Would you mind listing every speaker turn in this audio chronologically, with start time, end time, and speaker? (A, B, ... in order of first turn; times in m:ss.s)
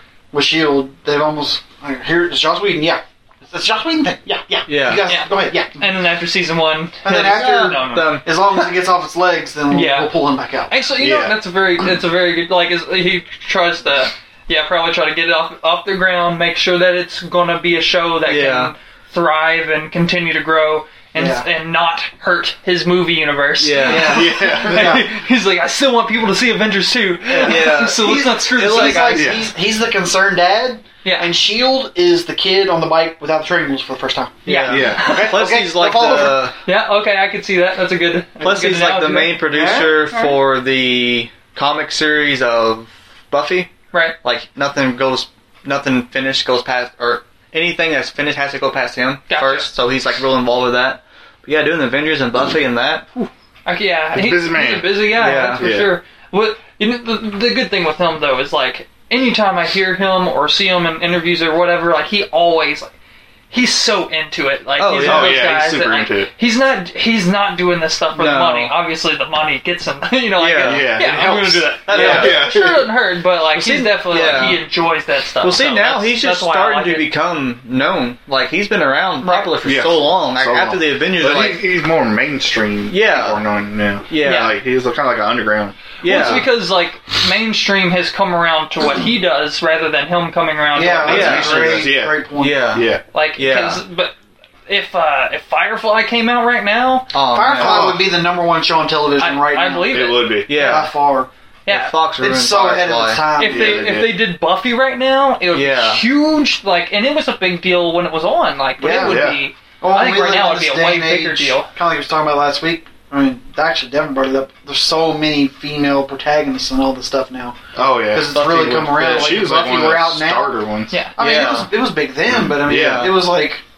0:00.3-0:05.8 A
0:04.7-0:05.1 B
0:05.0-0:08.2 C
0:07.0-0:10.8 A
0:07.1-0:08.3 B
0:09.7-0:10.1 C
0:10.7-0:29.3 C
0:11.0-0:11.4 D
0:18.3-0:18.7 B
0:21.2-0:21.5 A
0:23.6-0:24.4 B
0:23.8-0:25.1 A
0:24.0-0:25.0 D
0:27.3-0:29.2 B
0:27.4-0:36.5 A
0:29.1-0:29.4 D
0:31.0-0:31.3 C
0:34.4-0:36.6 B
0:34.5-0:35.4 C
0:34.7-0:35.2 D
0:36.6-0:40.3 C
0:38.4-0:53.1 B
0:39.5-0:40.2 A
0:49.3-0:49.7 C
0:53.2-1:02.9 C
0:54.1-0:56.0 D
0:55.1-0:55.7 B
1:03.5-1:17.1 C
1:04.8-1:05.5 B
1:05.0-1:06.3 D
1:08.2-1:08.8 B
1:10.4-1:11.0 B
1:10.6-1:12.9 D
1:11.8-1:12.4 A
1:11.9-1:12.5 B
1:13.6-1:14.6 B
1:15.4-1:21.7 B
1:19.2-1:19.6 C
1:19.6-1:26.4 D
1:22.9-1:23.4 B
1:24.1-1:24.5 B
1:24.2-1:24.5 C
1:26.0-1:26.5 B
1:26.0-1:31.5 C
1:30.7-1:32.8 A
1:31.0-1:33.0 D
1:31.0-1:33.8 B
1:33.1-1:34.2 C
1:34.7-1:37.1 C
1:37.1-1:38.0 B
1:37.3-1:41.3 A
1:37.6-1:38.0 D
1:39.2-1:40.4 C
1:39.9-1:40.6 D
1:40.5-1:40.9 B
1:41.7-1:41.9 C
1:41.7-1:43.3 B
1:42.2-1:43.9 A
1:43.4-1:51.7 C
1:43.4-1:44.3 D
1:45.5-1:46.0 B
1:48.8-1:49.2 A
1:49.0-1:49.4 D
1:49.8-2:00.6 A
1:57.8-2:01.0 D
2:00.9-2:01.2 C
2:01.2-2:03.6 A
2:01.2-2:01.7 B
2:02.3-2:03.1 D
2:02.6-2:03.2 B